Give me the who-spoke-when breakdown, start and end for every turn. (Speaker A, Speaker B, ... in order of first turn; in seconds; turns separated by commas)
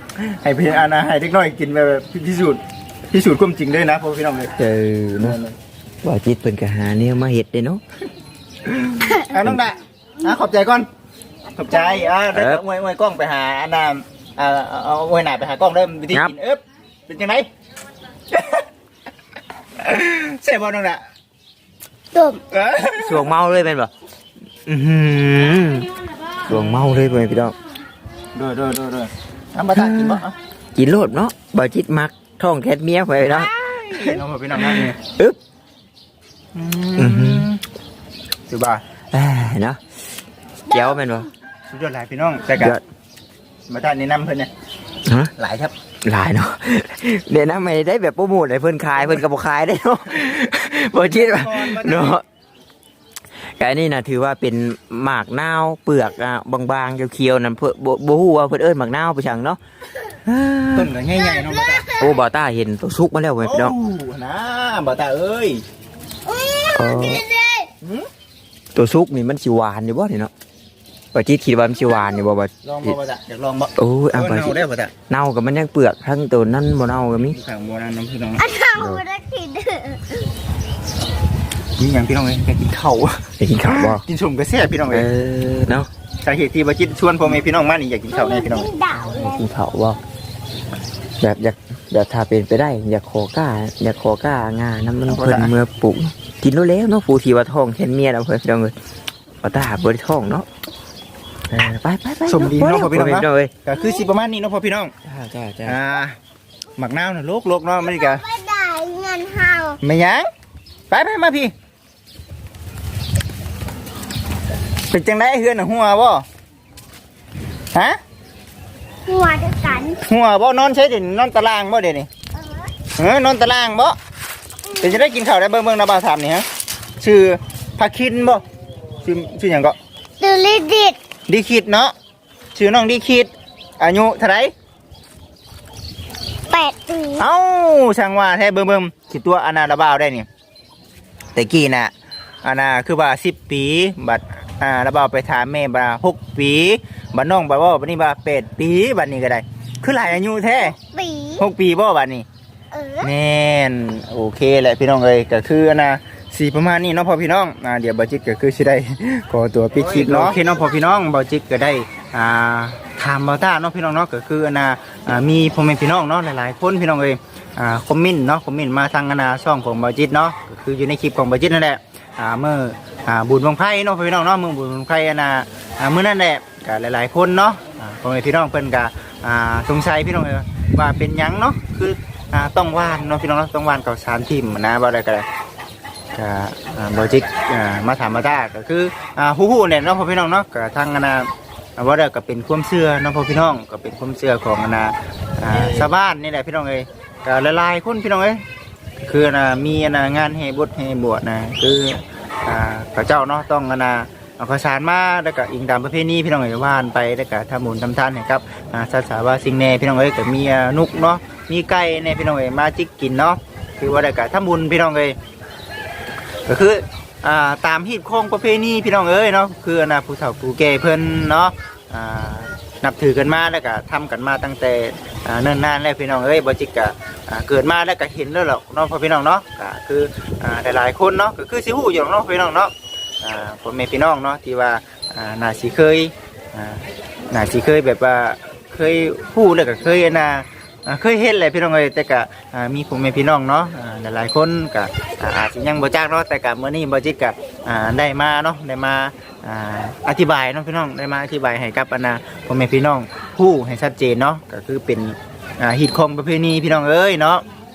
Speaker A: 0.2-4.5, Speaker B: 4.6-5.4, Speaker A: 5.2-5.6, Speaker B: 6.0-7.8, Speaker A: 8.7-10.9, Speaker A: 11.5-17.5, Speaker B: 12.3-12.6, Speaker A: 18.3-18.6, Speaker A: 19.8-21.0, Speaker C: 22.1-22.4, Speaker A: 22.5-23.2, Speaker B: 23.0-23.9, Speaker B: 24.7-25.9, Speaker B: 26.4-27.6, Speaker A: 26.5-26.9, Speaker A: 28.4-30.4, Speaker B: 29.7-30.2, Speaker B: 30.8-35.4, Speaker A: 33.8-35.0, Speaker A: 36.5-37.6, Speaker B: 37.0-37.5, Speaker A: 38.5-38.8, Speaker B: 39.1-39.8, Speaker B: 40.7-41.3, Speaker A: 41.7-42.8, Speaker A: 43.7-44.5, Speaker B: 45.1-45.3, Speaker A: 45.4-45.7, Speaker B: 46.0-52.2, Speaker A: 51.1-52.2, Speaker B: 53.6-59.6, Speaker B: 60.1-60.9, Speaker A: 60.8-62.0, Speaker C: 61.3-62.1, Speaker B: 62.0-63.8, Speaker A: 63.4-65.6, Speaker C: 66.3-67.7, Speaker B: 66.7-67.2, Speaker A: 67.8-68.1, Speaker B: 68.8-70.3, Speaker B: 71.1-73.0, Speaker C: 71.9-72.2, Speaker A: 72.6-74.9, Speaker B: 73.8-77.4, Speaker A: 77.3-78.5, Speaker C: 78.4-80.3, Speaker B: 78.8-79.0, Speaker A: 81.8-85.1, Speaker B: 83.4-84.0, Speaker B: 84.9-85.9, Speaker A: 86.2-88.7, Speaker C: 88.1-89.4, Speaker B: 88.9-90.0, Speaker B: 91.2-98.7, Speaker A: 95.1-95.5, Speaker B: 99.4-100.5, Speaker B: 101.5-103.5, Speaker A: 102.3-104.9, Speaker B: 105.0-105.8, Speaker A: 105.7-106.2, Speaker A: 106.8-108.2, Speaker C: 107.8-109.8, Speaker A: 109.8-110.3, Speaker A: 110.9-111.5, Speaker A: 114.9-116.2, Speaker A: 117.7-118.0, Speaker C: 119.1-120.0, Speaker A: 119.9-122.1, Speaker C: 122.3-122.7, Speaker A: 123.0-124.0, Speaker A: 124.8-126.5, Speaker A: 127.0-128.4, Speaker A: 129.0-129.8, Speaker C: 130.2-131.0, Speaker A: 131.3-131.9, Speaker A: 132.6-134.5, Speaker C: 136.5-137.2, Speaker A: 137.2-140.3, Speaker A: 141.3-141.9, Speaker A: 142.4-150.8, Speaker C: 150.8-151.5, Speaker A: 151.4-152.3, Speaker C: 152.7-153.1, Speaker A: 153.0-185.3, Speaker B: 159.8-160.4, Speaker A: 186.2-198.4, Speaker A: 199.0-215.2, Speaker A: 216.5-257.4